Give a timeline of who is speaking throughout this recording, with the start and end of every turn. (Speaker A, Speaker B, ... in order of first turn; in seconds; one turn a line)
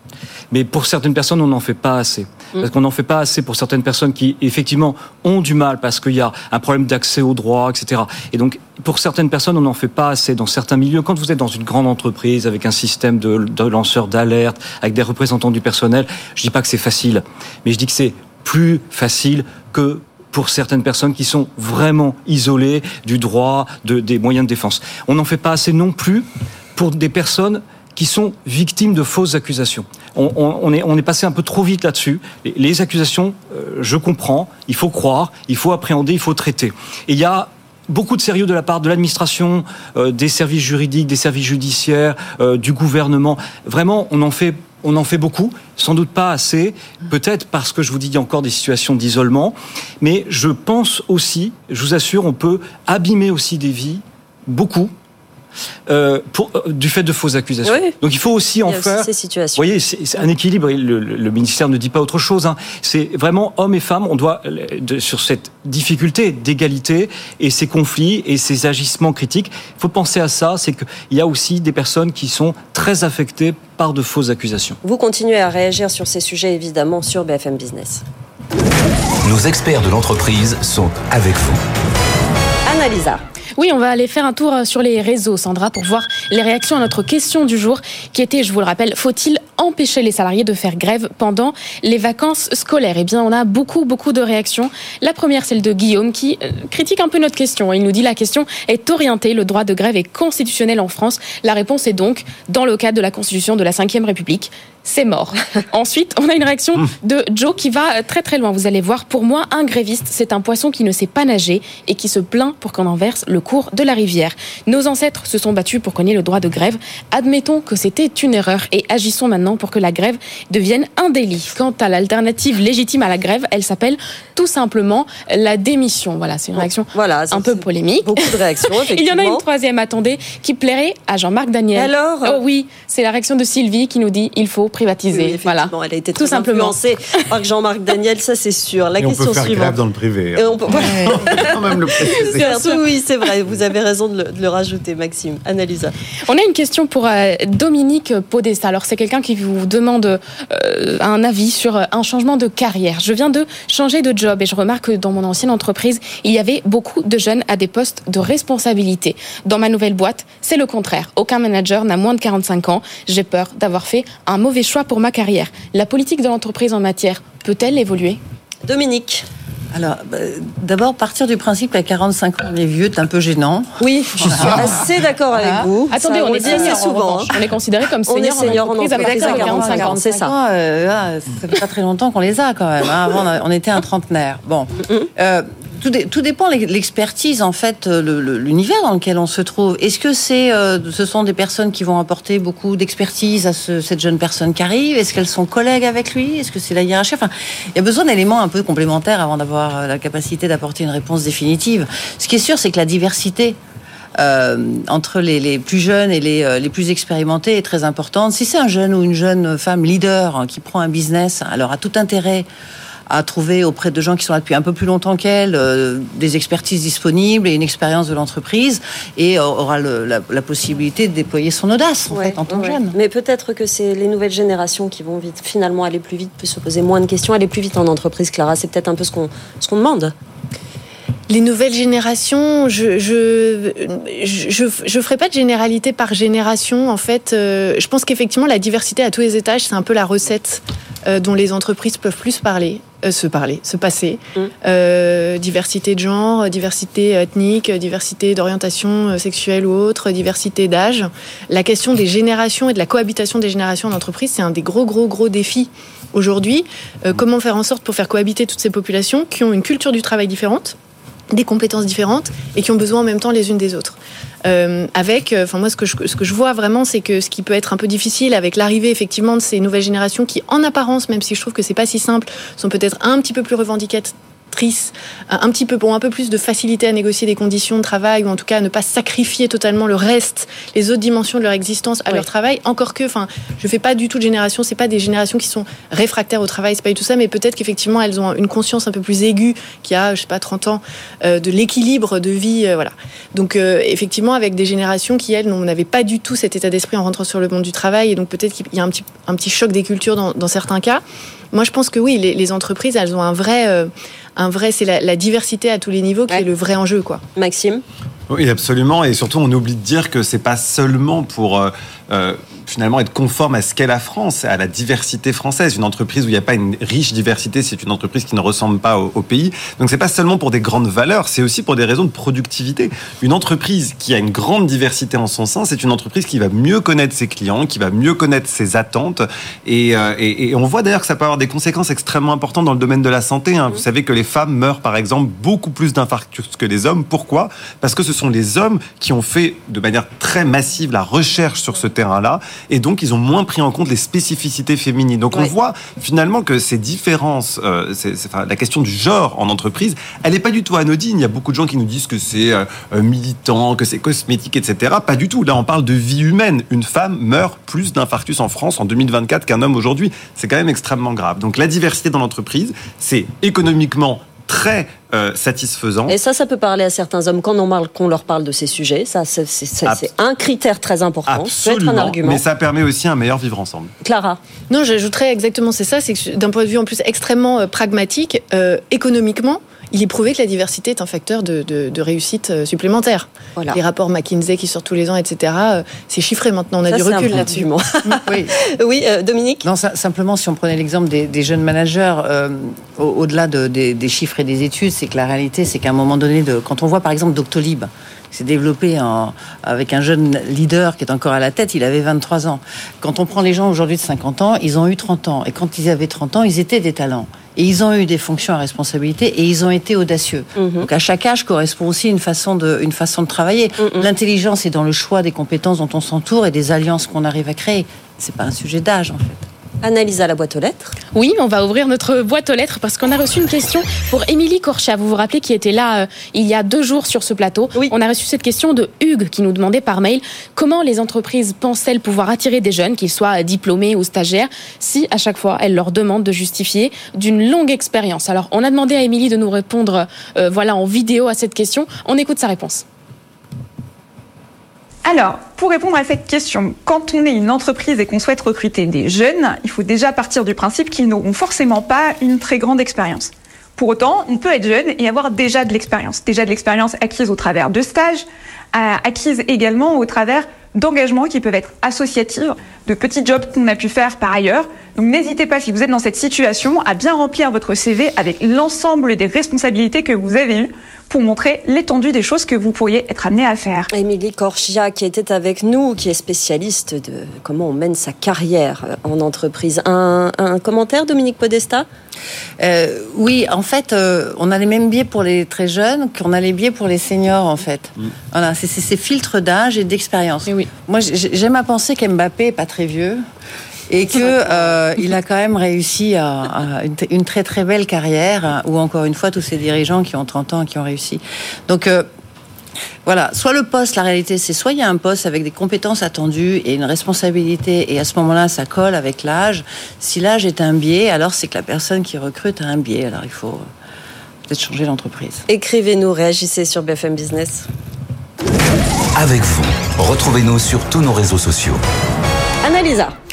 Speaker A: 0.5-54.9
Speaker A: 55.9-74.8
Speaker B: 57.6-57.9
Speaker B: 58.6-59.6
Speaker B: 74.8-78.0
Speaker C: 79.2-81.6
Speaker B: 82.6-83.2
Speaker D: 83.6-136.7
Speaker B: 126.5-129.4
Speaker B: 131.7-132.4
Speaker B: 135.1-139.8
Speaker E: 139.0-142.4
Speaker B: 140.3-145.9
Speaker F: 140.8-141.1
Speaker D: 142.2-142.8
Speaker D: 146.2-168.2
Speaker B: 168.7-169.2
Speaker F: 169.7-175.7
Speaker B: 173.8-177.3
Speaker D: 175.9-180.0
Speaker F: 176.4-176.8
Speaker B: 178.1-180.3
Speaker F: 178.9-203.6
Speaker F: 204.2-212.5
Speaker F: 213.1-222.9
Speaker B: 222.1-230.1
Speaker G: 231.3-260.7
Speaker G: 261.3-307.2
Speaker B: 307.4-307.8
Speaker E: 308.3-366.1
Speaker B: 366.1-372.4
Speaker E: 371.3-373.9
Speaker B: 374.0-374.4
Speaker G: 374.7-387.7
Speaker B: 386.9-389.6
Speaker F: 388.2-388.6
Speaker F: 389.6-419.4
Speaker B: 410.6-410.9
Speaker B: 413.8-414.1
Speaker B: 419.8-421.0
Speaker D: 421.1-442.8
Speaker H: 445.0-473.9
Speaker B: 473.9-481.9
Speaker F: 482.6-493.2
Speaker F: 493.9-502.1
Speaker B: 494.0-494.8
Speaker F: 503.0-513.6
Speaker F: 514.5-515.4
Speaker B: 515.5-517.6
Speaker C: 519.1-521.8
Speaker B: 522.6-523.1